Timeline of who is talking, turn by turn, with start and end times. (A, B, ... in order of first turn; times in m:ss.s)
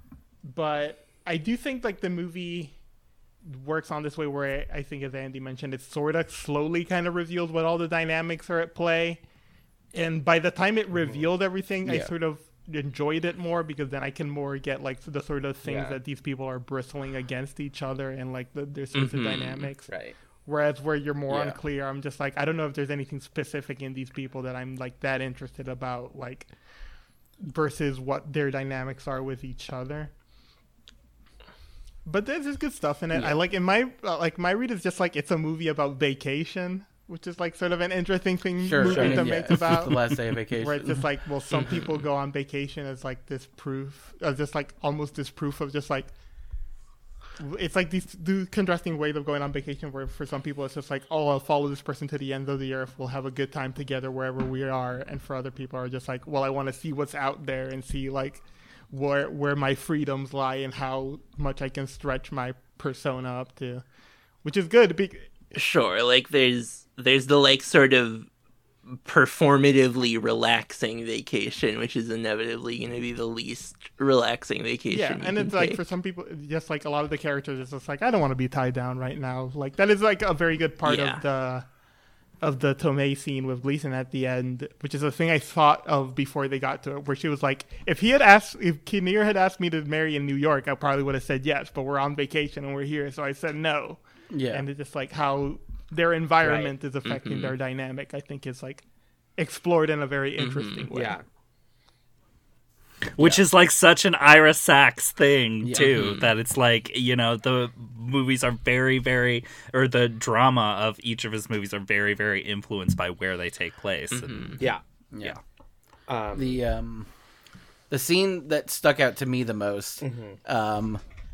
0:00.4-0:02.7 A
0:03.4-0:09.2 A
0:09.9-0:19.9 A
0:11.8-0:12.1 B
0:15.6-0:16.0 C
0:18.9-0:19.7 D
0:19.9-0:20.2 C
0:20.4-0:26.5 A
0:21.3-0:21.6 B
0:27.4-0:30.1 A
0:32.0-0:40.0 A
0:38.6-0:41.0 B
0:38.9-0:39.3 C
0:40.6-0:46.1 A
0:41.6-0:41.8 D
0:47.4-1:03.8 A
1:04.4-1:05.3 A
1:05.5-1:08.3 D
1:08.9-1:15.8 D
1:14.9-1:21.7 A
1:20.8-1:21.2 D
1:22.4-1:38.8 A
1:34.3-1:34.6 B
1:36.4-1:36.7 C
1:37.0-1:37.5 D
1:39.4-1:41.2 A
1:40.4-1:40.8 D
1:40.9-1:41.2 C
1:43.1-1:54.6 E
1:45.6-1:45.9 B
1:45.7-1:46.3 D
1:54.1-1:54.6 D
1:55.1-1:55.4 B
1:56.1-1:56.6 C
1:56.3-1:57.1 B
1:57.9-2:01.0 B
2:00.0-2:00.4 C